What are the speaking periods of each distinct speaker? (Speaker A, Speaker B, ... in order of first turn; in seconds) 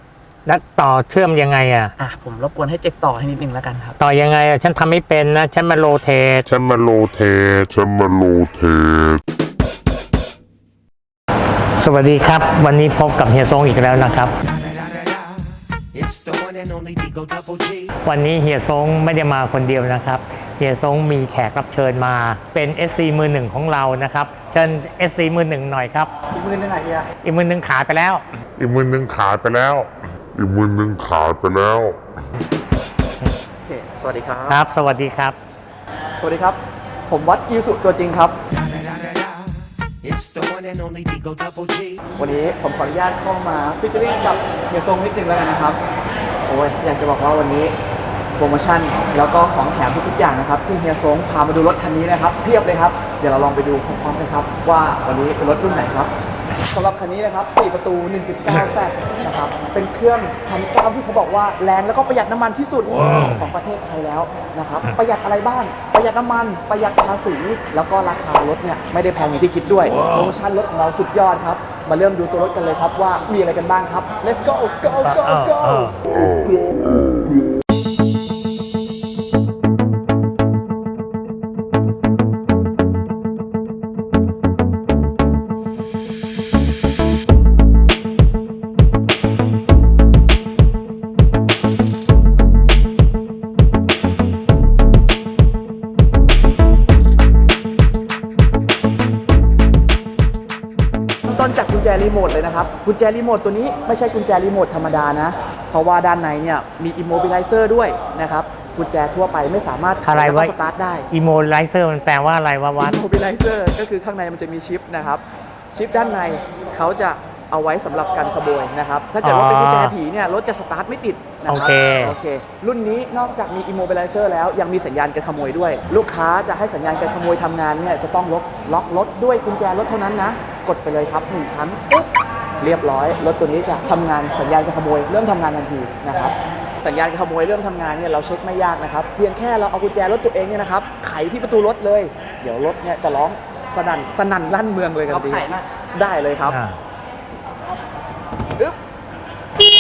Speaker A: 0.5-1.9, 4.0-6.5, 11.8-14.3, 18.0-26.1, 27.2-28.2, 34.5-35.4, 63.0-63.5, 75.0-76.0, 110.0-110.5, 111.1-113.0, 119.2-120.0, 121.5-122.2, 146.5-146.8
Speaker B: 2.0-4.0, 26.3-27.1, 33.6-34.6, 36.2-38.4, 42.2-45.8, 46.5-47.7, 48.4-56.1, 56.7-76.0, 101.2-111.1, 112.8-146.6
Speaker C: 6.5-9.2, 28.6-32.1, 76.1-77.0
Speaker D: 14.6-17.9, 38.7-39.5, 40.0-42.0